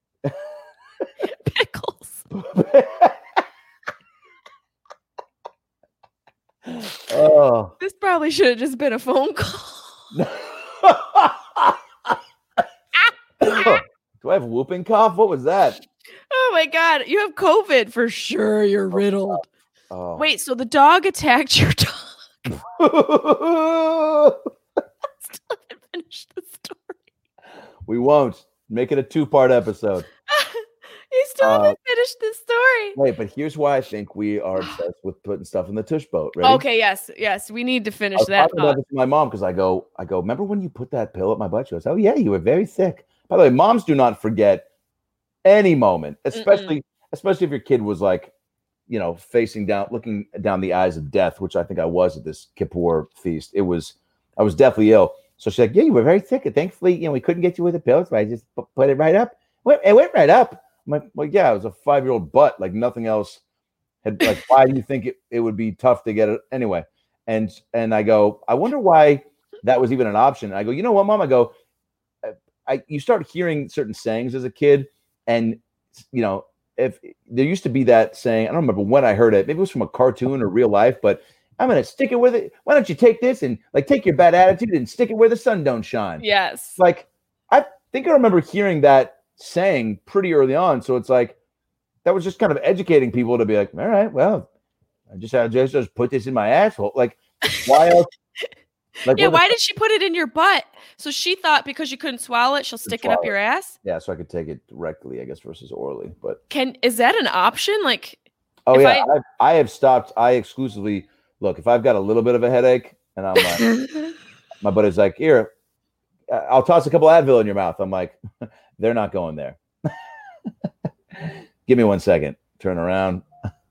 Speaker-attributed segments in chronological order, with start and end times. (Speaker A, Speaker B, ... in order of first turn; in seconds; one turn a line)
Speaker A: 1.2-2.2
Speaker B: 2.3-3.2
Speaker B: 6.7-7.7
Speaker A: 7.8-9.9
Speaker B: 10.1-12.1
Speaker B: 13.4-15.8
Speaker A: 13.5-13.7
Speaker A: 16.3-19.4
Speaker B: 19.9-20.2
Speaker A: 20.1-22.5
Speaker B: 22.5-24.4
Speaker A: 25.2-27.0
Speaker B: 27.9-30.1
Speaker A: 30.3-33.0
Speaker B: 31.4-31.8
Speaker B: 32.9-36.6
Speaker A: 36.4-38.8
Speaker B: 38.1-44.6
Speaker B: 45.4-48.3
Speaker A: 46.3-46.7
Speaker B: 48.9-63.4
Speaker B: 64.0-71.5
Speaker B: 72.2-86.2
Speaker A: 86.2-86.8
Speaker B: 86.8-91.3
Speaker B: 92.0-94.5
Speaker B: 95.1-98.1
Speaker B: 99.0-99.5
Speaker A: 99.1-103.7
Speaker B: 102.8-106.4
Speaker A: 106.5-108.2
Speaker B: 108.7-113.7
Speaker A: 108.7-109.1
Speaker B: 114.6-115.5
Speaker B: 116.3-118.2
Speaker B: 118.8-119.6
Speaker B: 121.2-123.2